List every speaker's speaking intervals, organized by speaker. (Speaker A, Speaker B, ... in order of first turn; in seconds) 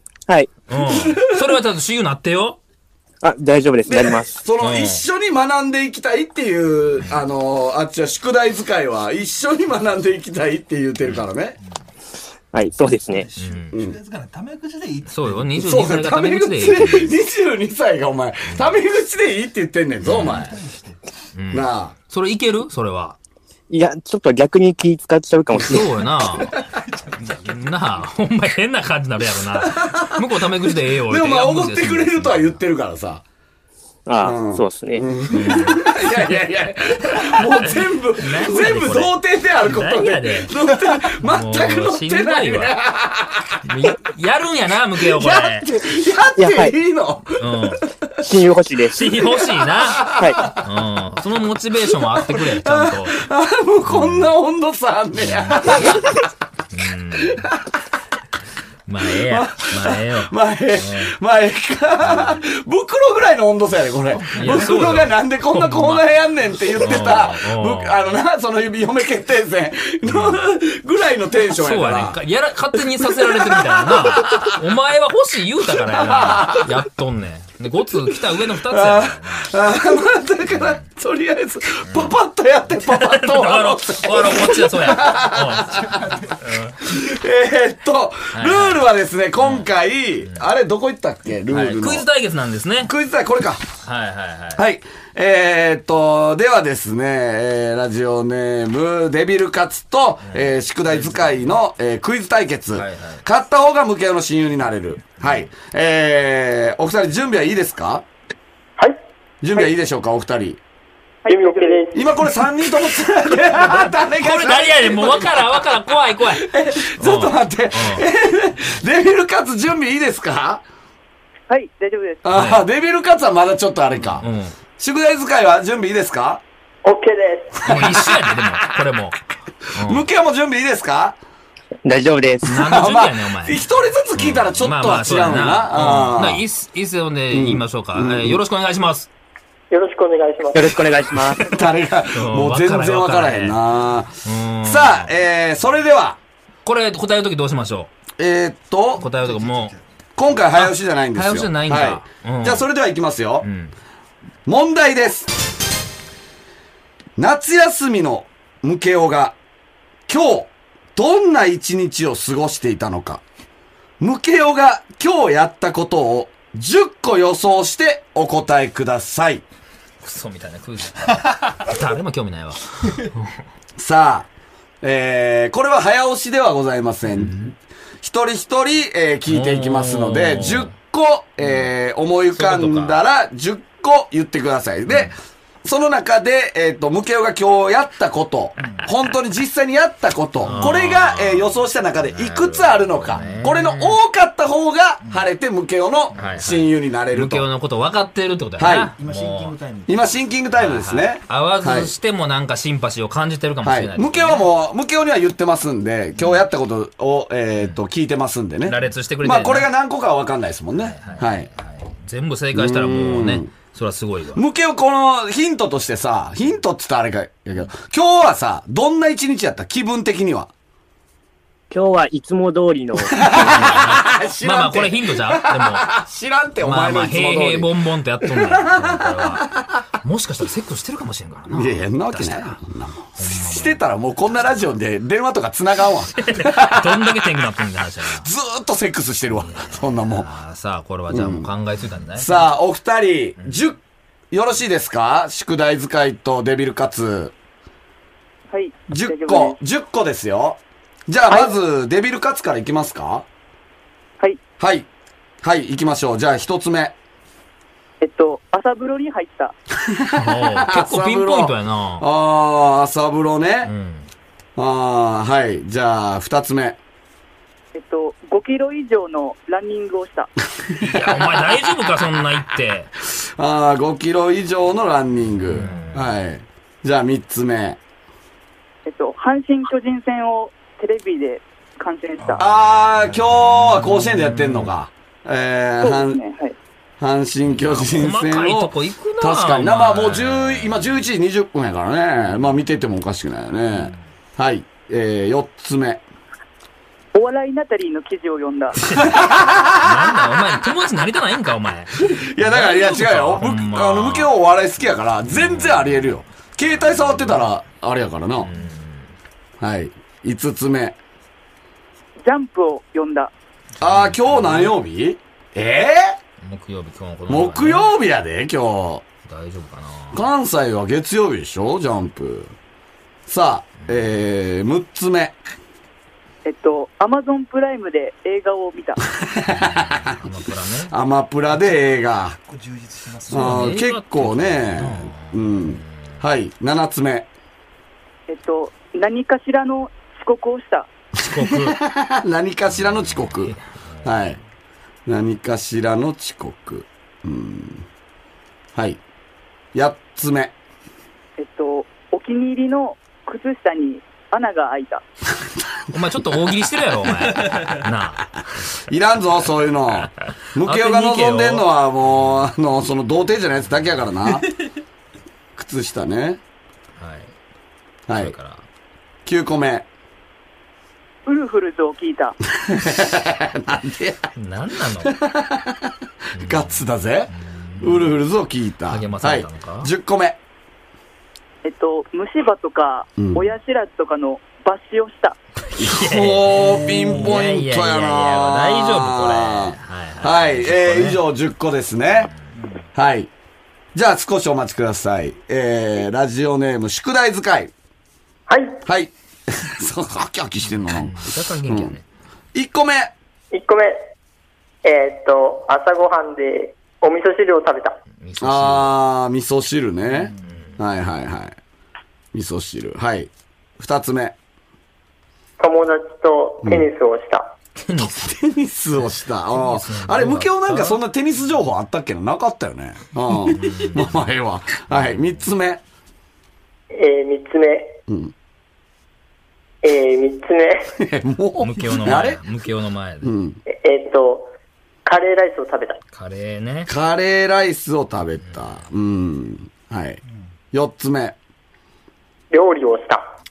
Speaker A: 0.3-0.5, 3.2-4.4, 12.5-13.3, 23.7-26.0, 34.1-35.1, 46.4-46.8, 48.2-49.2, 131.8-132.6, 140.5-141.4, 221.7-223.8
Speaker B: 0.7-2.6, 4.6-5.0, 13.4-13.7, 15.1-17.1, 20.0-20.5, 21.4-23.2, 25.6-26.6, 27.2-32.6, 35.3-36.0, 38.2-40.5, 41.2-42.8, 43.6-45.7, 47.4-47.8, 48.9-53.2, 53.9-54.3, 55.2-56.0, 56.7-57.5, 58.9-61.1, 64.3-66.1, 66.8-68.0, 70.1-70.5, 71.6-79.5, 80.5-80.8, 81.8-82.2, 82.8-86.8, 88.3-88.9, 89.4-89.7, 91.5-92.9, 93.8-94.6, 100.3-101.5, 102.7-103.2, 105.2-105.5, 114.2-118.1, 122.3-122.7, 124.1-124.6, 127.7-129.2, 129.7-130.1, 132.4-133.6, 134.2-139.1, 142.1-143.6, 144.2-145.1, 146.7-147.9, 149.0-149.8, 150.6-152.7, 153.4-153.7, 170.0-173.4, 177.2-177.5, 179.3-180.7, 181.4-181.7, 182.3-183.0, 184.9-185.1, 190.4-194.0, 196.2-199.6, 200.6-204.5, 206.2-206.4, 208.6-209.7, 210.8-214.4, 223.3-225.9, 226.6-232.6, 233.2-233.8, 236.2-238.3, 239.4-242.4, 260.1-262.1, 263.6-264.1, 270.8-272.9, 275.5-276.1, 283.0-284.7, 287.5-291.0, 298.9-299.2, 299.7-304.3, 305.3-307.5, 308.4-309.1, 313.8-314.7, 316.4-317.9, 319.2-320.3, 329.5-330.9, 333.3-336.2, 341.2-341.8, 342.7-344.2, 355.9-358.4, 360.6-362.5, 367.0-367.3, 368.1-368.6, 374.4-375.1, 376.4-378.1, 378.9-379.9, 385.7-391.2, 400.8-402.0, 408.2-409.0, 410.4-410.8, 417.8-418.4, 419.1-421.0, 423.5-424.2, 424.9-425.4, 431.6-433.3, 436.1-436.9, 438.5-438.8
Speaker C: 1.0-1.3, 3.9-11.6, 13.7-14.0, 15.6-20.5, 21.5-21.9, 29.6-30.1, 31.1-33.2, 34.2-43.6, 45.1-47.7, 49.4-50.6, 52.0-56.2, 57.2-57.7, 59.1-72.2, 72.9-74.6, 75.8-76.7, 78.1-86.2, 86.8-92.1, 92.8-93.7, 94.6-108.0, 109.4-110.6, 111.9-115.6, 116.3-120.6, 122.2-124.3, 124.8-126.4, 127.7-128.4, 129.8-131.2, 132.5-136.4, 137.3-138.4, 141.5-146.2, 148.2-149.0, 150.2-153.5, 154.5-155.3, 157.2-159.4, 160.1-163.2, 164.0-169.4, 173.8-174.3, 174.8-177.4, 178.0-197.5, 198.6-198.9, 199.9-201.9, 203.6-211.5, 212.5-213.5, 214.3-220.5, 223.2-227.7, 228.2-229.7, 231.5-237.3, 238.2-240.3, 241.1-241.5, 242.2-243.8, 244.3-247.3, 248.9-253.3, 254.6-254.9, 255.4-256.9, 259.9-263.7, 264.6-266.8, 270.7-271.5, 273.1-277.8, 282.4-286.2, 287.0-296.0, 299.1-299.9, 302.1-308.5, 309.6-311.0, 313.8-316.2, 317.3-319.1, 320.1-322.5, 323.3-325.4, 329.2-330.1, 330.9-332.4, 333.3-337.3, 341.3-344.4, 345.1-347.9, 348.8-349.0, 349.7-350.5, 358.9-364.5, 365.6-366.4, 368.1-368.4, 369.3-369.9, 372.6-374.3, 375.0-380.4, 383.2-383.5, 385.8-392.3, 392.9-393.3, 393.9-397.7, 398.9-401.9, 402.5-403.1, 408.4-411.6, 412.3-414.4, 418.0-425.8, 428.1-428.3, 431.0-432.4, 433.2-433.6, 436.9-440.2, 440.7-441.4
Speaker D: 13.1-15.6, 20.2-21.0, 26.8-27.7, 64.3-64.7, 85.9-86.3, 149.0-149.8, 188.6-188.9, 193.1-193.5, 196.1-196.4, 198.7-200.2, 332.4-333.8, 357.2-357.8, 392.6-392.9
Speaker E: 111.2-111.8, 121.5-122.2, 248.5-249.6, 258.0-259.6, 267.8-270.3, 278.9-282.5, 285.8-286.6, 297.1-298.9, 312.2-313.3, 326.4-329.1, 338.3-340.9, 351.4-355.0, 371.3-372.4, 381.6-385.4
Speaker F: 111.3-112.0, 126.8-127.7, 139.7-140.8, 398.5-398.8, 403.5-404.0, 404.8-408.0, 415.6-417.5, 426.9-428.0, 429.8-430.9, 433.7-434.5, 435.1-436.0, 442.5-443.2